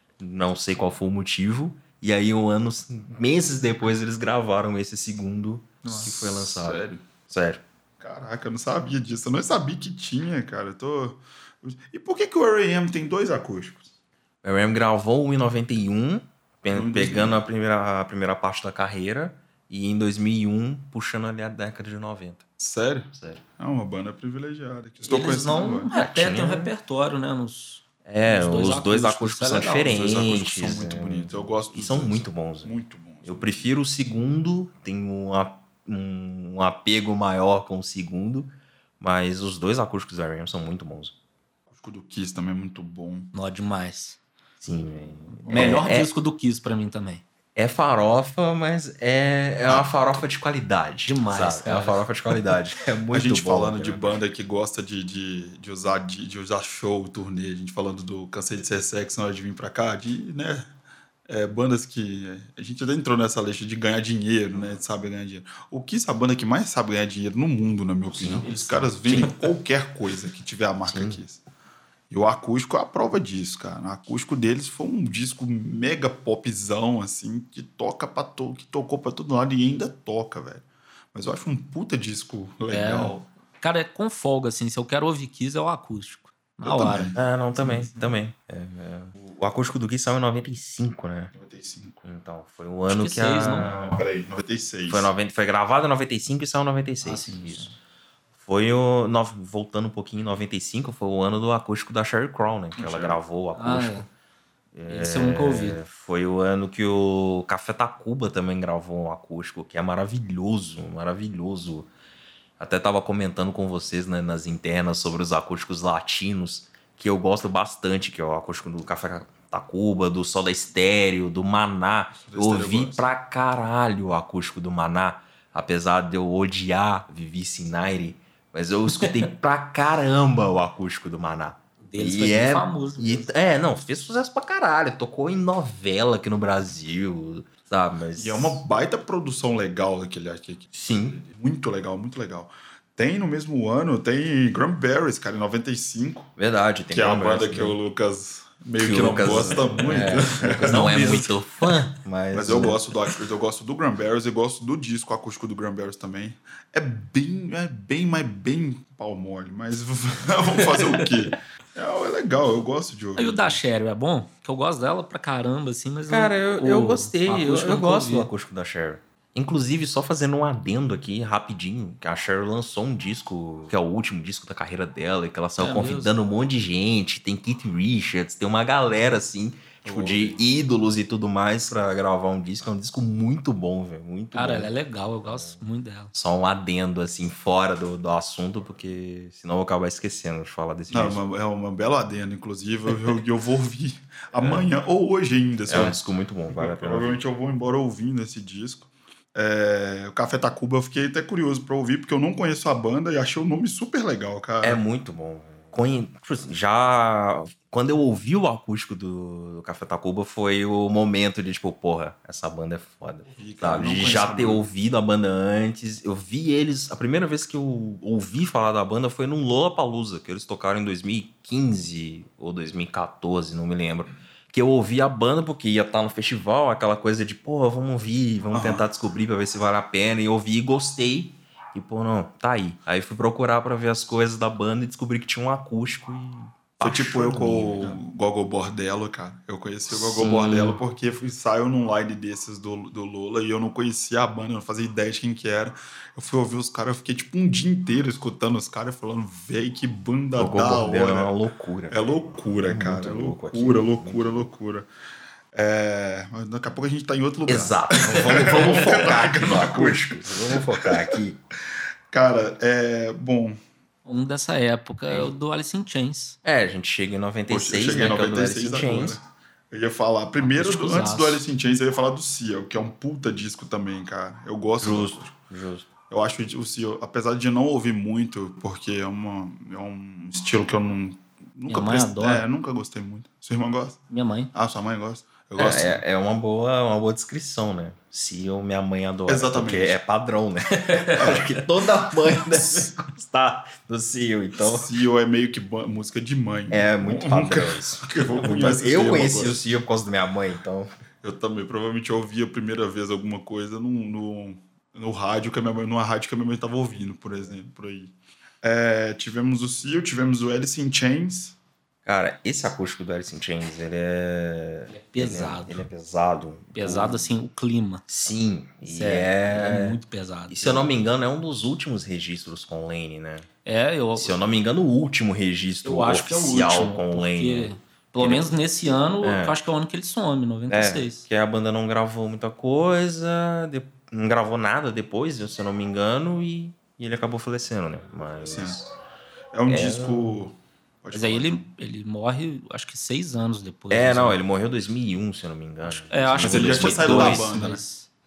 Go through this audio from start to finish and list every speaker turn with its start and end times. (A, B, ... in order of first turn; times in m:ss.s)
0:00.2-0:07.6 A
0:05.9-0:07.0 B
0:08.0-0:13.9 B
0:14.4-0:22.4 A
0:16.7-0:17.4 B
0:22.6-0:25.9 B
0:23.1-0:23.4 A
0:25.1-0:29.9 C
0:25.3-0:26.7 A
0:28.0-0:41.1 A
0:29.7-0:33.7 B
0:41.7-0:43.3 B
0:43.3-0:44.2 C
0:44.6-0:46.1 A
0:45.4-0:45.9 B
0:45.5-0:47.2 C
0:47.6-0:54.2 A
0:49.6-0:50.2 B
0:51.0-0:52.0 C
0:53.1-1:00.7 B
1:01.3-1:11.4 B
1:08.1-1:09.4 A
1:10.9-1:11.2 A
1:12.1-1:23.2 B
1:22.7-1:27.1 C
1:26.6-1:27.2 B
1:27.1-1:31.3 A
1:31.3-1:32.0 B
1:32.0-1:34.0 A
1:32.9-1:33.7 C
1:33.6-1:35.1 B
1:34.9-1:37.7 A
1:37.0-1:37.7 C
1:38.4-1:44.1 A
1:42.7-1:43.2 B
1:43.6-1:44.0 C
1:44.7-1:51.9 A
1:44.9-1:45.8 C
1:52.6-2:18.6 A
2:02.2-2:03.0 B
2:09.0-2:09.3 C
2:11.8-2:13.3 C
2:18.2-2:26.3 B
2:20.7-2:21.2 A
2:26.4-2:27.8 A
2:26.9-2:31.3 B
2:28.8-2:32.8 A
2:32.3-2:43.6 B
2:43.2-2:48.3 C
2:46.1-3:04.7 A
2:55.6-2:56.1 C
2:59.8-3:00.4 B
3:04.3-3:06.1 C
3:05.2-3:05.6 A
3:06.1-3:11.2 A
3:10.9-3:16.0 B
3:14.3-3:14.7 A
3:15.7-3:17.2 A
3:16.5-3:24.8 B
3:24.6-3:58.0 A
3:33.3-3:34.6 B
3:48.5-3:48.8 B
3:56.8-4:11.3 B
3:59.9-4:00.8 A
4:10.4-4:14.5 A
4:11.9-4:14.9 B
4:15.5-4:21.2 B
4:17.5-4:21.4 A
4:22.1-4:23.6 B
4:24.0-4:26.4 C
4:26.4-4:29.2 A
4:27.5-4:35.3 B
4:30.4-4:31.4 C
4:34.8-4:35.9 A
4:36.1-4:44.0 B
4:41.7-4:42.4 C
4:44.1-4:44.5 C
4:44.5-4:46.0 B
4:45.6-4:54.9 A
4:49.3-4:50.0 B
4:50.8-4:51.3 C
4:51.2-4:51.5 B
4:54.6-4:59.6 B
4:56.7-5:00.9 A
5:01.2-5:11.6 B
5:12.0-5:17.3 A
5:14.9-5:15.8 C
5:16.7-5:18.0 C
5:18.1-5:23.5 A
5:18.8-5:20.9 C
5:23.6-5:24.4 C
5:24.1-5:28.5 A
5:25.8-5:31.2 C
5:29.2-5:29.6 A
5:30.7-5:38.9 A
5:38.4-5:38.8 B
5:39.5-5:41.6 B
5:39.7-5:40.4 A
5:41.1-5:44.4 C
5:43.9-5:47.6 A
5:45.9-5:48.1 C
5:46.4-5:47.8 B